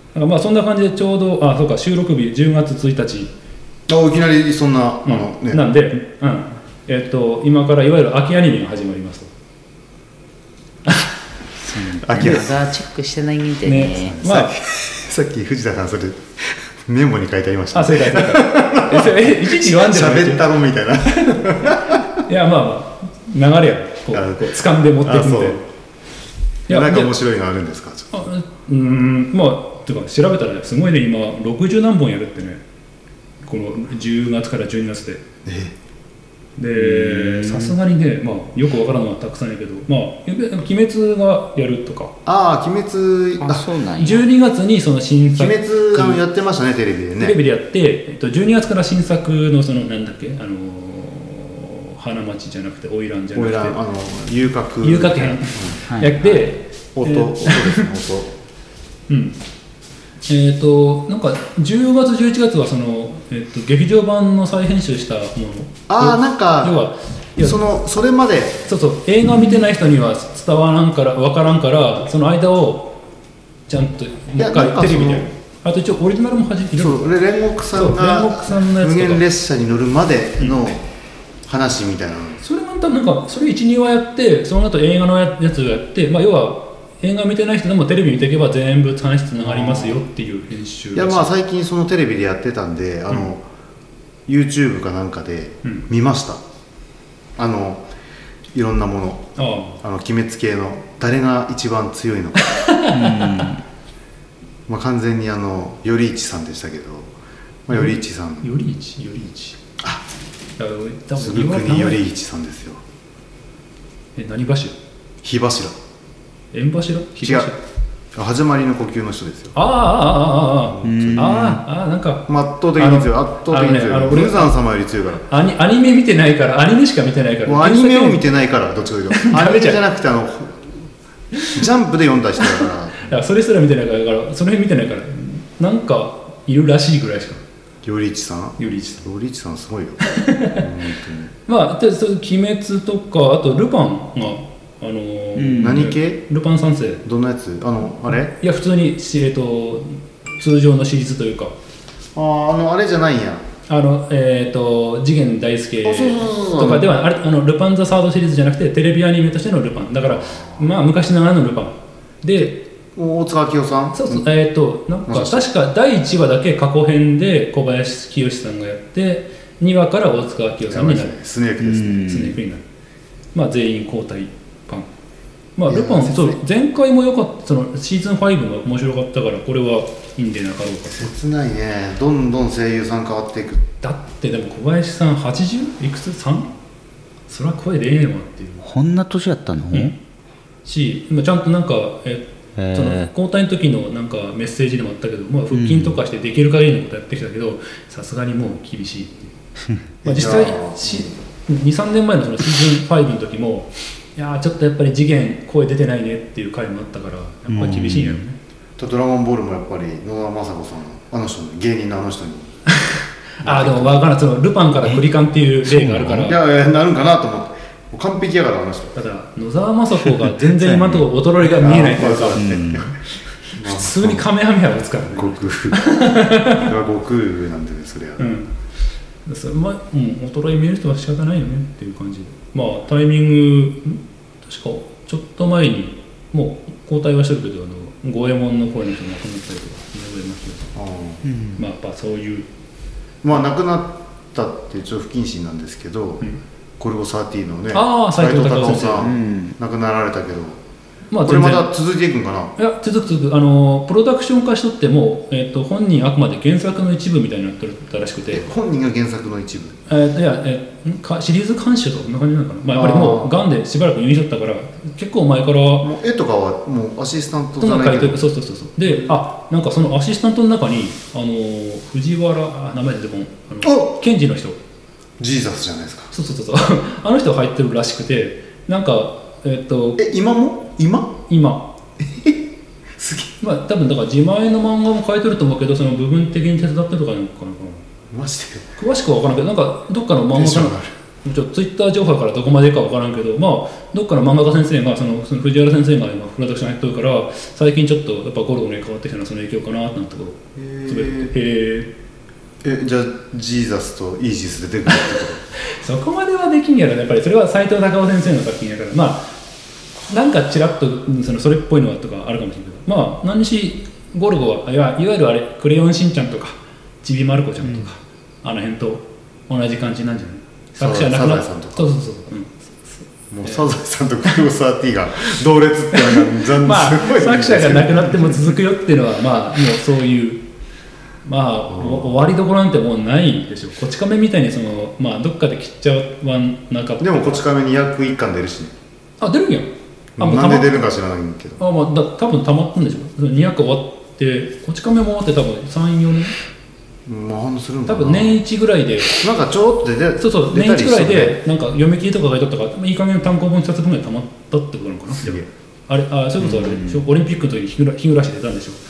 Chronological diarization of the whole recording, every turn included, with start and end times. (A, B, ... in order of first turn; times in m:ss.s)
0:00.1-0:03.3 A
0:03.9-0:05.6 B
0:05.0-0:09.3 A
0:11.6-0:14.2 C
0:12.0-0:12.6 B
0:13.6-0:14.5 A
0:14.2-0:22.2 B
0:17.7-0:20.4 A
0:21.1-0:25.6 A
0:24.1-0:25.6 B
0:26.7-0:27.2 A
0:26.7-0:28.3 B
0:28.1-0:32.6 A
0:33.4-0:35.2 A
0:35.4-0:35.8 B
0:36.6-0:42.1 A
0:36.8-0:37.8 C
0:42.2-0:43.6 B
0:43.4-0:44.2 C
0:44.0-0:46.2 A
0:45.4-0:47.4 B
0:47.2-0:53.8 A
0:53.3-0:58.3 B
0:54.8-0:57.9 A
0:59.1-0:59.4 A
1:00.2-1:07.6 A
1:05.9-1:06.8 B
1:07.4-1:08.6 B
1:08.7-1:13.0 A
1:13.7-1:17.1 A
1:14.4-1:15.3 B
1:16.8-1:20.9 B
1:17.7-1:19.2 A
1:21.4-1:22.4 B
1:22.4-1:31.3 A
1:29.4-1:30.0 B
1:30.9-1:33.4 B
1:34.3-1:36.4 B
1:37.4-1:37.8 B
1:38.5-1:39.3 B
1:39.4-1:39.8 A
1:39.8-1:42.6 B
1:42.5-1:43.3 A
1:42.9-1:43.6 C
1:44.7-1:47.1 B
1:47.7-1:48.5 B
1:47.7-1:49.6 A
1:50.6-1:52.0 A
1:51.2-1:52.8 B
1:54.2-1:54.8 A
1:55.2-1:55.8 B
1:56.5-1:57.6 A
1:57.2-1:57.5 B
1:58.1-1:59.6 B
1:59.5-2:04.5 A
2:00.7-2:01.6 B
2:00.8-2:01.6 C
2:02.3-2:05.2 B
2:05.3-2:08.2 A
2:07.4-2:10.8 B
2:09.1-2:09.8 A
2:11.3-2:11.6 A
2:11.5-2:13.0 B
2:12.4-2:17.4 A
2:17.8-2:21.3 B
2:18.6-2:19.0 A
2:20.1-2:20.6 A
2:21.5-2:27.0 A
2:25.4-2:25.8 C
2:25.5-2:26.2 B
2:27.0-2:28.3 B
2:28.4-2:31.5 A
2:32.1-2:33.4 B
2:33.7-2:42.6 A
2:35.8-2:36.9 B
2:40.2-2:40.6 B
2:42.9-2:44.2 B
2:43.9-2:51.1 A
2:45.1-2:45.5 B
2:50.7-2:52.1 B
2:51.6-2:52.4 C
2:51.9-2:52.6 A
2:53.3-2:54.9 A
2:55.6-3:01.1 A
2:55.7-2:56.4 B
3:00.9-3:03.6 B
3:03.8-3:06.5 A
3:07.3-3:08.6 A
3:08.6-3:09.9 C
3:10.6-3:19.3 A
3:12.6-3:13.1 C
3:15.5-3:16.0 C
3:20.0-3:21.1 B
3:20.0-3:28.4 A
3:27.5-3:28.2 C
3:28.8-3:32.6 B
3:32.8-3:36.4 A
3:33.4-3:34.2 B
3:35.6-3:36.3 C
3:36.2-3:38.9 B
3:38.9-3:42.6 A
3:40.4-3:41.1 C
3:41.4-3:43.0 B
3:42.4-3:42.9 C
3:43.4-3:46.7 A
3:43.5-3:44.3 B
3:45.1-3:48.3 B
3:48.2-3:48.5 A
3:49.2-4:00.7 A
4:00.7-4:01.2 B
4:01.2-4:01.6 C
4:01.6-4:02.4 A
4:03.2-4:06.2 B
4:06.8-4:10.6 B
4:07.7-4:09.1 A
4:09.0-4:09.6 C
4:11.1-4:11.7 A
4:11.2-4:12.5 B
4:12.6-4:18.5 A
4:18.3-4:19.8 B
4:19.9-4:25.9 A
4:22.7-4:23.3 B
4:25.8-4:28.2 B
4:27.6-4:34.6 A
4:35.2-4:36.1 B
4:36.1-4:40.0 A
4:40.0-4:41.2 B
4:41.3-4:41.7 A
4:42.0-4:43.3 B
4:43.4-4:47.8 A
4:48.1-4:48.7 B
4:48.8-5:01.9 A
4:50.3-4:50.9 B
5:00.6-5:01.3 B
5:02.6-5:05.4 B
5:05.6-5:09.3 A
5:10.1-5:23.6 A
5:20.8-5:21.9 B
5:23.3-5:28.5 B
5:25.9-5:30.4 A
5:31.2-5:37.4 A
5:31.7-5:32.1 B
5:37.0-5:38.7 B
5:39.2-5:40.9 A
5:40.2-5:41.6 B
5:41.6-5:46.3 A
5:47.0-5:48.4 B
5:47.9-5:49.2 A
5:49.2-5:51.4 B
5:50.2-5:58.8 A
5:55.1-5:55.5 B
5:56.4-5:57.0 C